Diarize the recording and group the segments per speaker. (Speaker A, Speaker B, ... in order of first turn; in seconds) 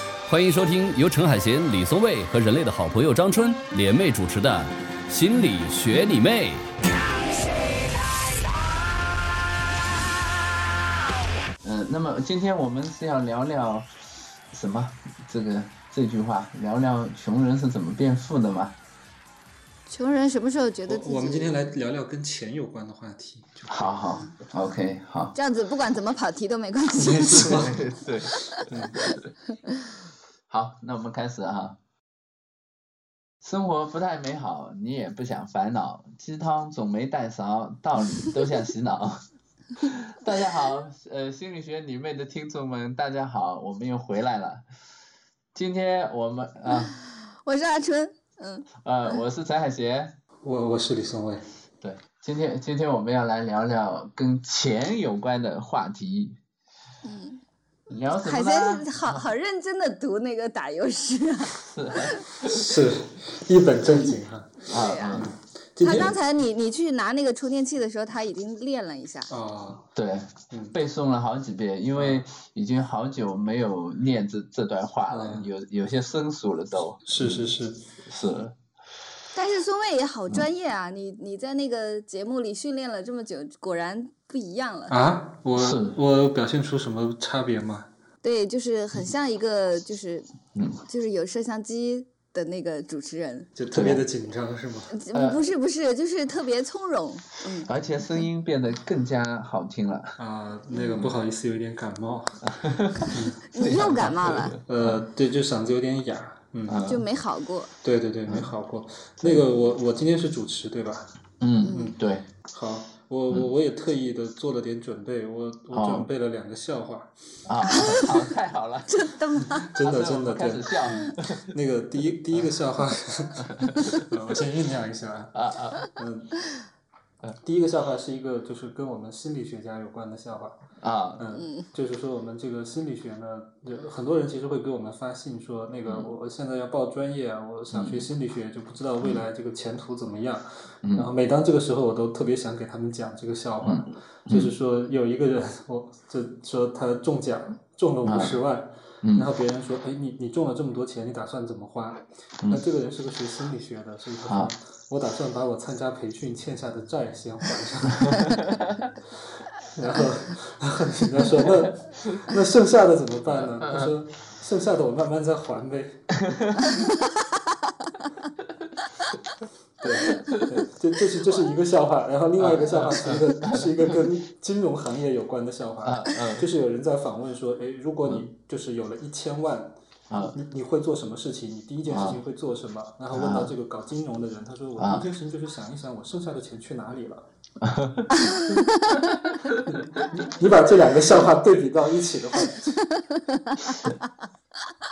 Speaker A: 0.2-6.7
Speaker B: 11.6-13.9, 14.5-18.7, 23.7-25.3, 27.1-28.4, 28.9-29.3, 30.5-31.8, 33.4-39.2, 39.8-44.6, 45.5-47.0, 48.8-50.1, 51.8-56.4, 57.9-58.9, 61.6-62.6, 64.7-65.3, 70.0-77.5, 78.0-78.5, 85.5-86.0, 90.5-90.8, 93.7-94.0, 95.1-95.4, 97.6-100.2, 102.5-105.0, 106.7-107.0, 111.4-112.3, 115.7-116.1, 117.5-121.5, 123.6-124.0, 125.3-125.8, 130.8-131.3, 137.7-138.1, 140.8-141.1, 143.6-144.5, 148.0-148.4, 149.0-149.3, 154.3-154.5, 158.0-158.9, 163.4-163.9, 172.4-174.0, 175.8-176.5, 180.1-180.4, 181.9-182.2, 183.1-183.5, 184.8-185.1, 187.6-188.3, 189.3-189.6
Speaker C: 19.9-21.5, 25.3-27.7, 47.1-48.7, 57.0-57.4, 58.2-62.2, 64.6-65.3, 65.8-69.3, 79.3-85.0, 88.2-90.3, 90.8-93.5, 94.9-97.7, 100.7-101.0, 103.5-104.5, 106.8-107.7, 111.6-111.9, 117.7-118.2, 118.9-119.7, 131.4-131.6, 188.2-189.0, 192.9-193.9
Speaker D: 20.9-23.8, 27.0-27.8, 28.6-29.0, 50.4-51.4, 62.4-66.1, 69.3-69.8, 70.5-70.8, 72.0-72.2, 75.1-75.5, 77.0-77.8, 84.9-87.9, 93.5-94.9, 100.2-102.5, 103.1-103.3, 104.7-106.8, 107.8-111.1, 111.7-111.9, 112.5-117.1, 119.7-126.4, 127.4-130.6, 131.2-158.3, 159.7-166.2, 169.8-187.2, 189.8-192.8